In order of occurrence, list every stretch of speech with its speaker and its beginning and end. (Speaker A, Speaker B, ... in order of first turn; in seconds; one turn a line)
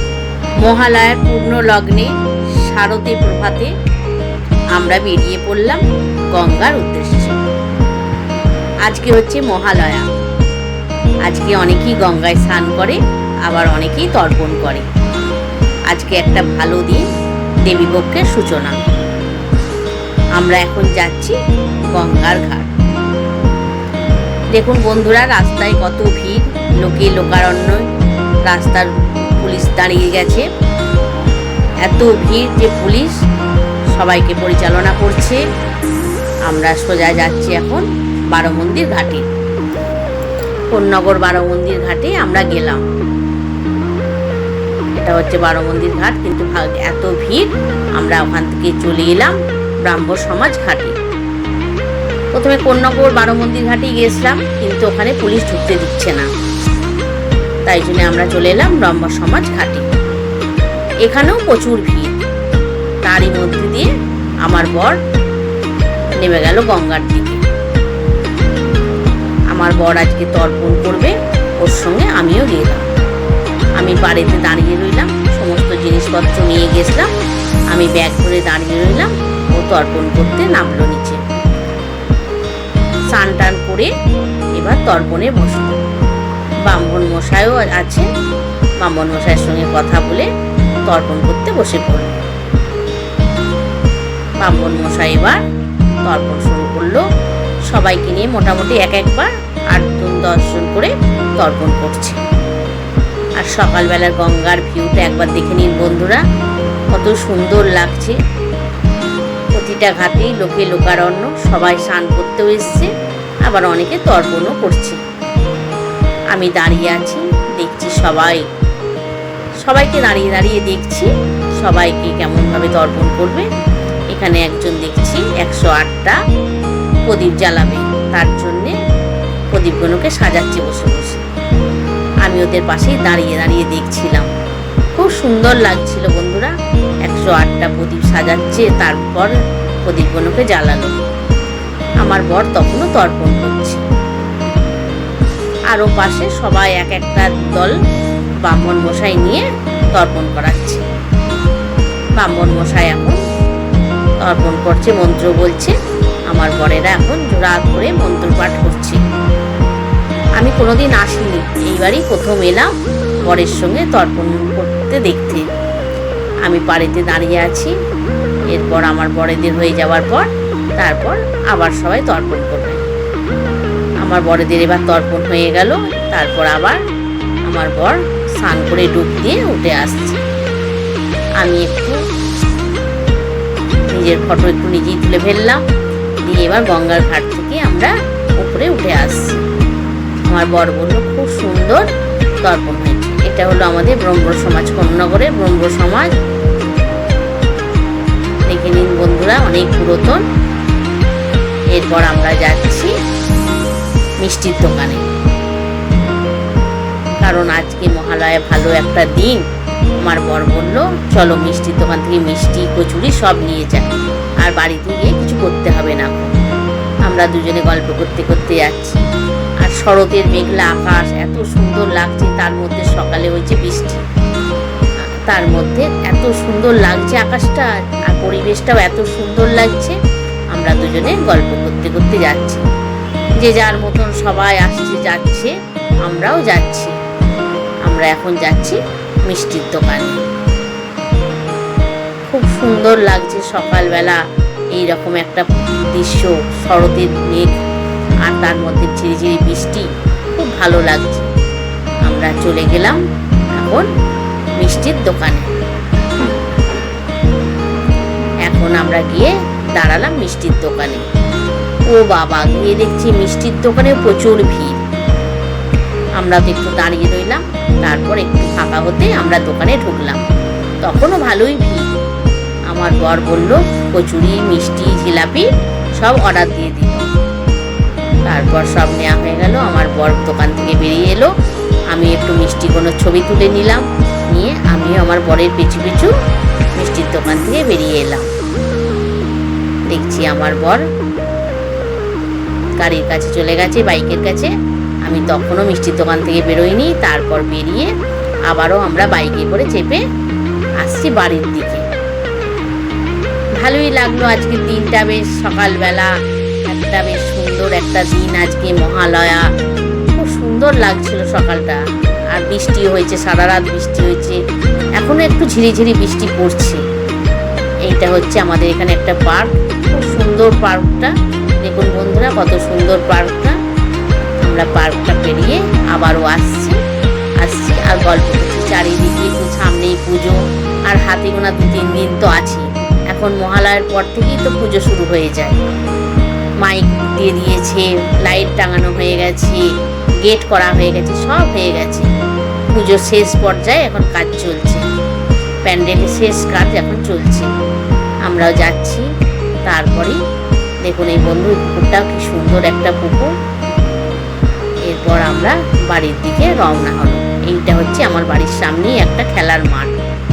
Speaker A: 0.6-3.7
Speaker A: 4.8-7.4
Speaker A: 8.9-10.1
Speaker A: 11.3-14.9
Speaker A: 15.9-17.0
Speaker A: 17.6-18.8
Speaker A: 20.4-21.4
Speaker A: 21.9-22.7
Speaker A: 24.5-27.9
Speaker A: 28.5-30.5
Speaker A: 31.8-33.2
Speaker A: 33.9-35.4
Speaker A: 36.5-39.3
Speaker A: 40.7-42.9
Speaker A: 45.0-51.0
Speaker A: 52.3-56.3
Speaker A: 57.7-59.9
Speaker A: 61.1-62.2
Speaker A: 63.0-63.9
Speaker A: 64.4-65.0
Speaker A: 66.2-67.4
Speaker A: 69.5-72.9
Speaker A: 73.8-77.1
Speaker A: 77.7-81.2
Speaker A: 83.1-83.9
Speaker A: 84.6-85.8
Speaker A: 86.7-88.1
Speaker A: 88.8-90.3
Speaker A: 90.9-92.2
Speaker A: 94.4-95.4
Speaker A: 96.0-97.0
Speaker A: 97.7-102.2
Speaker A: 103.4-106.2
Speaker A: 106.9-108.2
Speaker A: 109.5-112.9
Speaker A: 113.5-115.0
Speaker A: 116.3-118.5
Speaker A: 119.6-123.5
Speaker A: 124.1-126.2
Speaker A: 127.1-128.8
Speaker A: 129.5-131.2
Speaker A: 132.2-134.3
Speaker A: 135.0-136.5
Speaker A: 137.1-139.3
Speaker A: 139.9-140.9
Speaker A: 142.0-143.8
Speaker A: 145.7-147.8
Speaker A: 148.4-150.8
Speaker A: 152.2-153.2
Speaker A: 154.2-155.8
Speaker A: 156.3-159.0
Speaker A: 160.4-162.7
Speaker A: 163.2-165.5
Speaker A: 166.4-167.7
Speaker A: 168.5-172.8
Speaker A: 174.0-176.8
Speaker A: 177.5-180.2
Speaker A: 181.4-182.0
Speaker A: 183.9-185.7
Speaker A: 186.2-189.4
Speaker A: 190.3-191.9
Speaker A: 192.4-196.1
Speaker A: 198.5-200.2
Speaker A: 201.7-202.9
Speaker A: 204.2-205.0
Speaker A: 207.2-209.4
Speaker A: 210.0-216.3
Speaker A: 217.1-219.0
Speaker A: 219.6-224.0
Speaker A: 225.3-230.0
Speaker A: 230.5-232.6
Speaker A: 233.4-235.5
Speaker A: 236.1-236.9
Speaker A: 237.9-240.2
Speaker A: 242.3-244.2
Speaker A: 244.8-247.6
Speaker A: 248.3-251.3
Speaker A: 252.1-253.0
Speaker A: 253.6-253.9
Speaker A: 254.6-255.5
Speaker A: 258.5-261.1
Speaker A: 261.9-264.8
Speaker A: 266.2-270.2
Speaker A: 270.8-271.9
Speaker A: 272.7-277.1
Speaker A: 278.3-281.3
Speaker A: 281.9-286.1
Speaker A: 286.8-288.3
Speaker A: 289.9-290.8
Speaker A: 292.8-294.5
Speaker A: 295.1-297.9
Speaker A: 298.5-300.0
Speaker A: 300.8-301.9
Speaker A: 303.6-306.1
Speaker A: 306.7-309.4
Speaker A: 310.1-311.8
Speaker A: 312.3-314.4
Speaker A: 315.0-316.8
Speaker A: 317.9-323.6
Speaker A: 324.4-326.8
Speaker A: 327.4-335.6
Speaker A: 336.6-339.7
Speaker A: 340.2-342.1
Speaker A: 342.7-344.9
Speaker A: 345.6-347.5
Speaker A: 348.3-349.1
Speaker A: 349.6-350.2
Speaker A: 350.8-353.3
Speaker A: 354.9-360.0